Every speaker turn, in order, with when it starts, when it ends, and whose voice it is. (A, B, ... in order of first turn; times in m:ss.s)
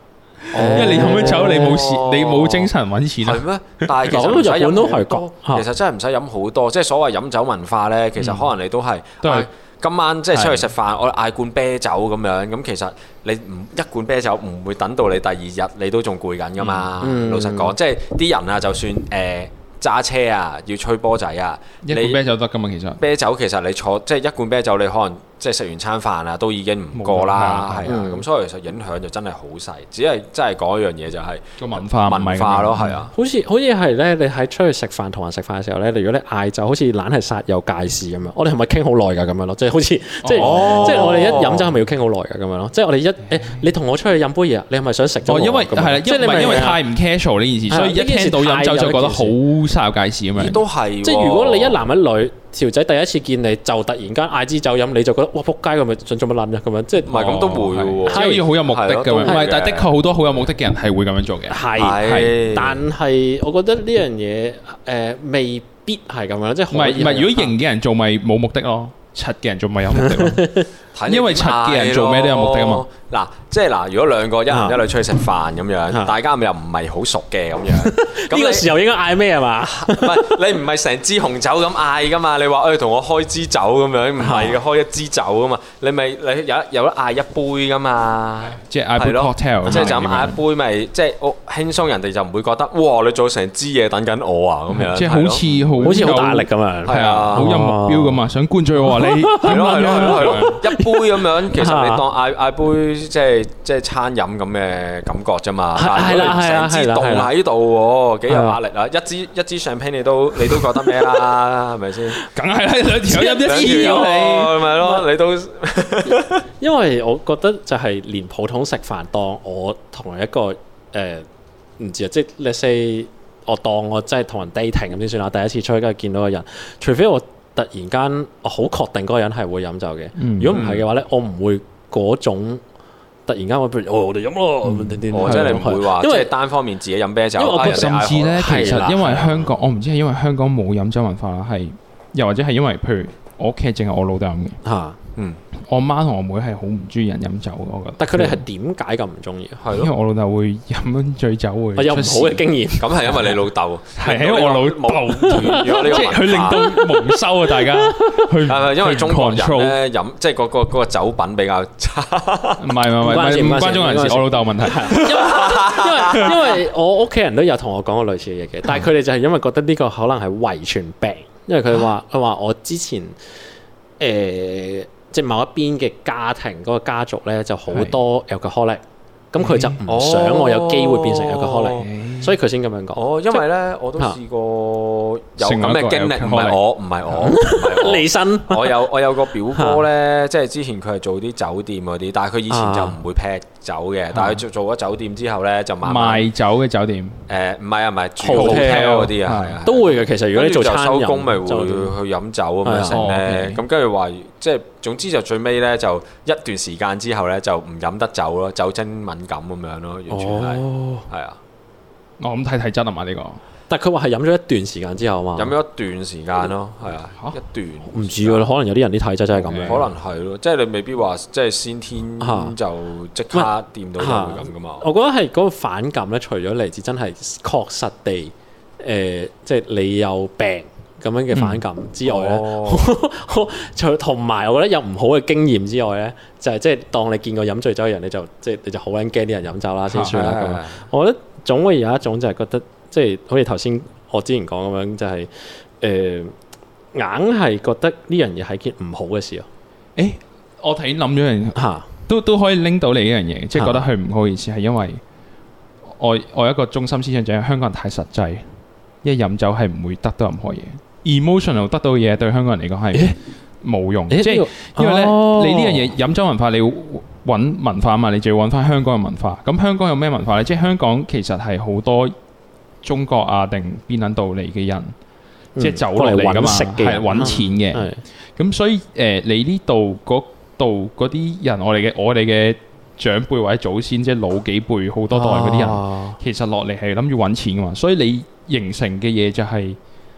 0:00.5-0:03.9 A
0:00.5-0:02.7 B
0:00.5-0:01.8 C
0:03.2-0:22.2 B
0:04.1-0:05.6 C
0:08.2-0:08.5 A
0:09.2-0:09.5 A
0:10.3-0:10.7 A
0:16.6-0:16.9 A
0:17.0-0:17.7 C
0:21.8-0:23.0 A
0:23.0-0:33.1 B
0:26.9-0:28.0 A
0:27.8-0:28.2 C
0:31.6-0:33.0 A
0:33.1-0:46.8 C
0:40.2-0:41.4 A
0:40.4-0:41.7 B
0:45.3-0:50.6 A
0:47.7-0:49.4 C
0:50.4-0:51.8 B
0:51.0-0:57.4 C
0:57.1-0:59.9 B
0:57.1-1:02.4 A
0:58.1-0:58.4 C
0:59.2-0:59.5 C
1:01.5-1:07.5 C
1:01.8-1:02.8 B
1:06.7-1:10.5 A
1:10.0-1:10.7 C
1:11.0-1:18.7 B
1:11.1-1:12.9 A
1:14.5-1:14.8 C
1:17.7-1:20.4 C
1:19.6-1:36.1 B
1:24.2-1:24.6 C
1:28.7-1:30.4 A
1:34.8-1:40.6 A
1:35.8-1:38.2 C
1:36.9-1:37.6 B
1:38.8-1:42.0 C
1:39.4-1:52.2 B
1:45.8-1:47.3 C
1:48.3-1:48.6 C
1:52.3-1:54.6 A
1:53.1-1:54.1 C
1:53.2-1:56.4 B
1:54.8-1:55.0 C
1:56.1-2:01.3 C
2:01.8-2:12.6 C
2:10.2-2:10.6 A
2:10.5-2:10.8 B
2:13.3-2:16.3 C
2:14.6-2:15.8 A
2:15.1-2:19.5 B
2:17.4-2:18.9 C
2:17.5-2:24.6 A
2:24.6-2:25.0 C
2:25.7-2:28.4 A
2:28.0-2:29.6 C
2:29.6-2:29.9 B
2:29.7-2:32.4 A
2:31.8-2:33.3 C
2:32.8-2:36.8 B
2:34.0-2:39.8 A
2:35.2-2:38.3 C
2:38.4-2:42.8 B
2:42.6-2:45.1 A
2:43.0-2:53.2 C
2:44.9-2:46.6 B
2:54.0-2:58.8 C
2:57.7-2:58.0 A
2:59.3-3:03.4 C
2:59.4-2:59.8 A
2:59.9-3:01.9 B
3:01.8-3:02.4 A
3:03.0-3:16.3 B
3:05.4-3:06.6 A
3:07.2-3:08.8 C
3:09.5-3:09.8 C
3:12.5-3:13.0 C
3:15.8-3:17.2 A
3:17.3-3:31.4 B
3:18.2-3:19.1 C
3:18.3-3:19.6 A
3:19.6-3:22.0 C
3:22.6-3:23.0 C
3:22.9-3:23.6 A
3:30.1-3:31.0 C
3:32.2-3:33.4 A
3:33.7-3:35.5 C
3:35.4-3:38.4 B
3:37.9-3:39.9 C
3:39.4-3:39.8 A
3:39.6-3:44.8 B
3:42.2-3:42.6 C
3:43.3-4:06.3 C
3:51.3-3:51.6 A
3:52.0-3:52.9 B
3:59.9-4:00.2 A
4:00.1-4:00.8 B
4:06.9-4:09.5 C
4:10.0-4:15.0 A
4:11.6-4:11.9 C
4:13.6-4:13.8 C
4:15.9-4:18.5 A
4:19.0-4:32.1 A
4:24.1-4:25.9 C
4:32.8-4:34.9 A
4:35.6-4:38.0 C
4:35.6-4:49.8 A
4:45.1-4:46.2 C